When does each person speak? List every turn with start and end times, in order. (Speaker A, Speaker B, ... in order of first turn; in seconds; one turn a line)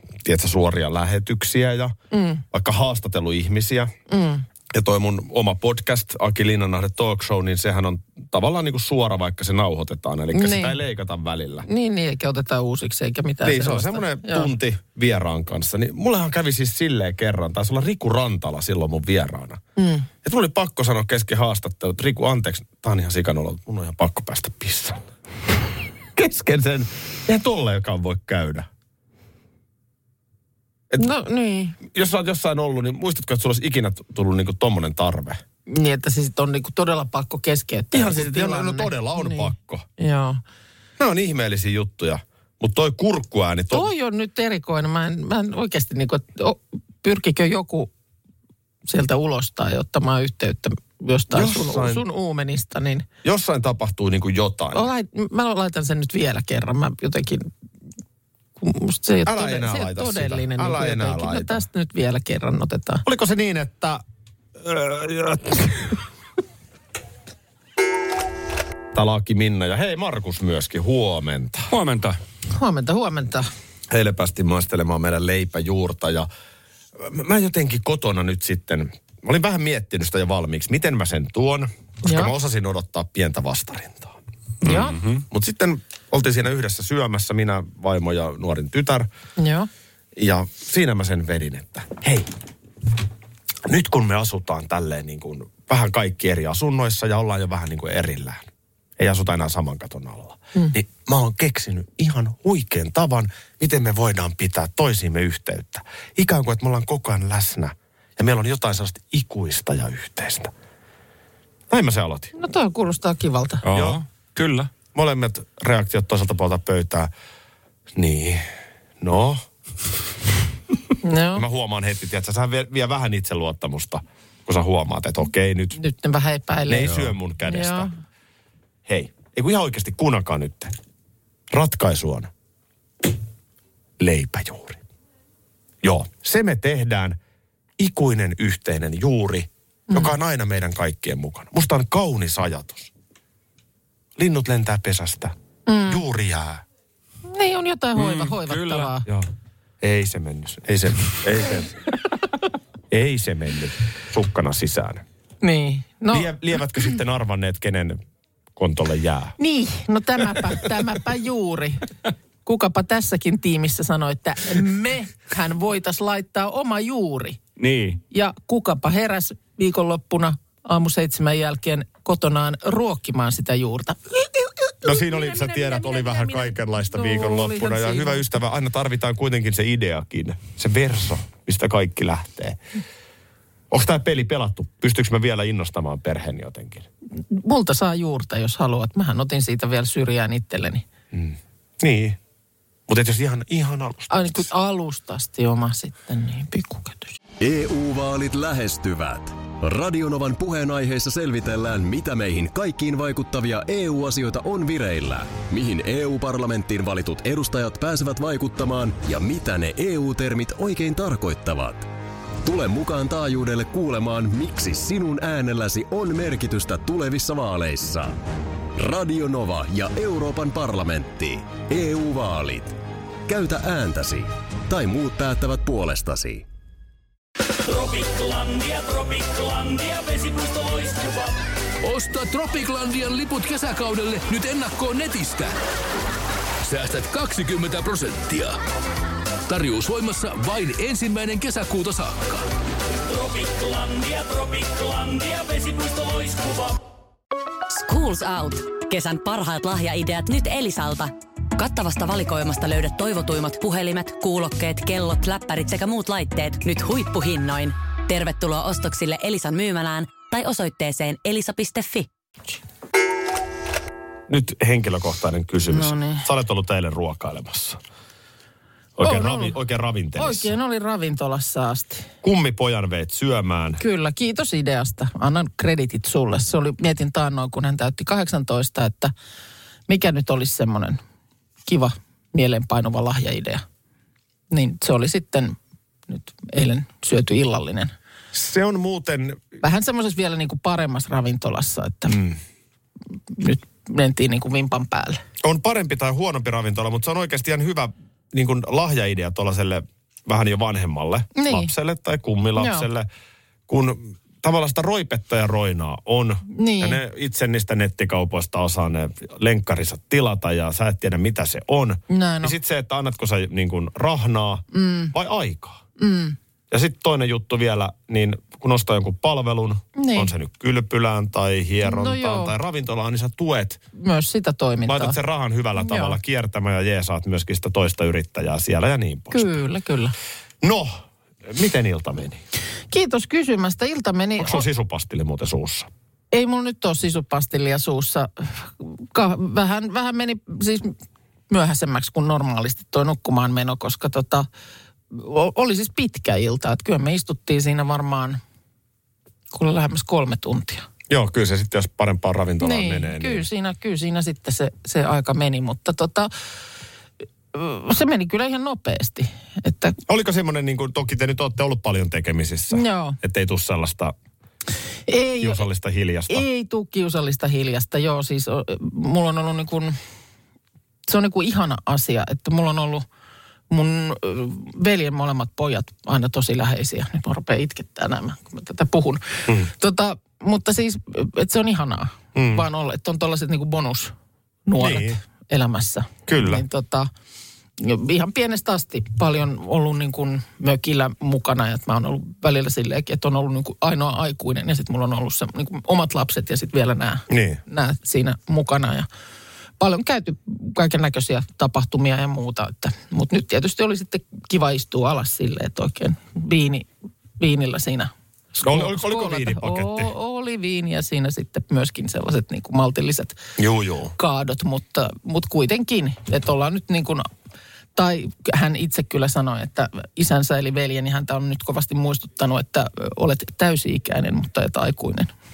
Speaker A: 0.2-2.0
Speaker B: 2.1-2.4
Speaker A: 2.5-3.9
Speaker B: 4.1-4.5
Speaker A: 4.7-11.7
Speaker B: 10.3-10.8
Speaker B: 11.7-14.5
Speaker A: 13.4-19.6
Speaker B: 19.8-20.1
Speaker A: 20.2-25.0
Speaker A: 26.2-28.7
Speaker B: 31.0-31.8
Speaker A: 31.9-35.4
Speaker B: 35.7-40.4
Speaker A: 37.9-39.9
Speaker A: 41.0-43.9
Speaker B: 43.7-47.9
Speaker B: 48.9-53.1
Speaker A: 51.3-52.0
Speaker A: 53.2-54.9
Speaker B: 54.7-57.5
Speaker B: 58.6-63.0
Speaker A: 59.3-61.6
Speaker A: 63.0-64.0
Speaker A: 64.6-66.0
Speaker A: 68.9-71.7
Speaker C: 71.7-72.2
Speaker B: 72.5-73.5
Speaker A: 73.9-76.3
Speaker A: 77.0-84.2
Speaker B: 82.0-82.3
Speaker B: 84.6-85.0
Speaker C: 84.7-85.2
Speaker A: 84.7-89.1
Speaker B: 89.4-89.7
Speaker A: 90.2-92.3
Speaker A: 93.7-98.5
Speaker A: 99.0-110.5
Speaker A: 111.7-112.3
Speaker B: 112.3-113.6
Speaker C: 113.6-114.7
Speaker A: 113.7-114.0
Speaker A: 114.9-117.1
Speaker A: 118.0-118.5
Speaker A: 119.0-119.4
Speaker B: 121.0-121.4
Speaker A: 121.3-125.8
Speaker B: 125.8-128.0
Speaker A: 126.7-127.9
Speaker A: 128.9-130.7
Speaker A: 131.5-132.3
Speaker A: 134.0-134.8
Speaker A: 135.8-137.2
Speaker A: 137.8-142.9
Speaker A: 144.2-145.3
Speaker B: 145.7-146.0
Speaker A: 145.9-146.6
Speaker B: 147.3-149.1
Speaker C: 147.9-148.9
Speaker A: 149.8-151.8
Speaker A: 152.9-155.0
Speaker B: 155.4-156.3
Speaker A: 156.1-158.0
Speaker A: 158.6-159.4
Speaker B: 159.4-161.9
Speaker B: 162.4-167.4
Speaker C: 167.6-168.0
Speaker B: 168.1-178.2
Speaker A: 174.8-182.6
Speaker A: 183.7-186.9
Speaker B: 187.3-190.8
Speaker A: 191.1-192.2
Speaker A: 192.9-194.5
Speaker B: 194.1-197.2
Speaker D: 197.4-211.9
Speaker D: 212.4-218.2
Speaker D: 218.8-222.8
Speaker D: 223.3-226.4
Speaker E: 227.7-235.5
Speaker E: 236.6-238.6
Speaker E: 239.5-242.4
Speaker E: 243.1-246.7
Speaker F: 247.7-262.1
Speaker A: 264.3-267.8
Speaker B: 265.7-266.3
Speaker A: 269.0-270.6
Speaker B: 269.0-269.6
Speaker B: 270.2-272.1
Speaker A: 272.2-273.8
Speaker B: 273.8-279.1
Speaker B: 279.9-281.0
Speaker B: 281.7-283.6
Speaker B: 284.5-285.6
Speaker B: 286.1-287.9
Speaker A: 288.3-289.4
Speaker B: 289.6-292.2
Speaker A: 292.1-292.4
Speaker B: 293.3-295.2
Speaker A: 295.4-303.1
Speaker B: 301.4-301.7
Speaker B: 302.6-302.9
Speaker A: 303.7-315.8
Speaker B: 306.5-307.0
Speaker B: 312.1-312.6
Speaker B: 314.7-315.1
Speaker B: 316.0-316.4
Speaker A: 316.7-323.8
Speaker B: 320.0-320.3
Speaker B: 321.8-322.6
Speaker B: 323.9-325.2
Speaker A: 324.9-329.5
Speaker B: 325.8-326.2
Speaker B: 329.3-330.1
Speaker A: 330.6-332.4
Speaker B: 332.9-334.7
Speaker A: 334.4-335.9
Speaker B: 336.3-340.9
Speaker B: 341.5-344.5
Speaker B: 345.1-348.4
Speaker B: 349.5-350.9
Speaker A: 351.1-353.4
Speaker B: 352.6-356.3
Speaker B: 357.5-360.0
Speaker A: 360.1-364.1
Speaker B: 362.7-363.2
Speaker B: 365.1-365.6
Speaker A: 365.4-366.4
Speaker B: 366.3-370.0
Speaker B: 371.1-373.1
Speaker B: 373.7-384.1
Speaker A: 382.4-382.6
Speaker B: 384.7-387.1
Speaker A: 384.8-385.2
Speaker A: 386.3-386.6
Speaker B: 387.8-399.1
Speaker A: 397.3-397.6
Speaker B: 399.8-413.4
Speaker A: 408.6-410.1
Speaker A: 413.6-414.1
Speaker B: 414.2-417.3
Speaker B: 417.9-425.3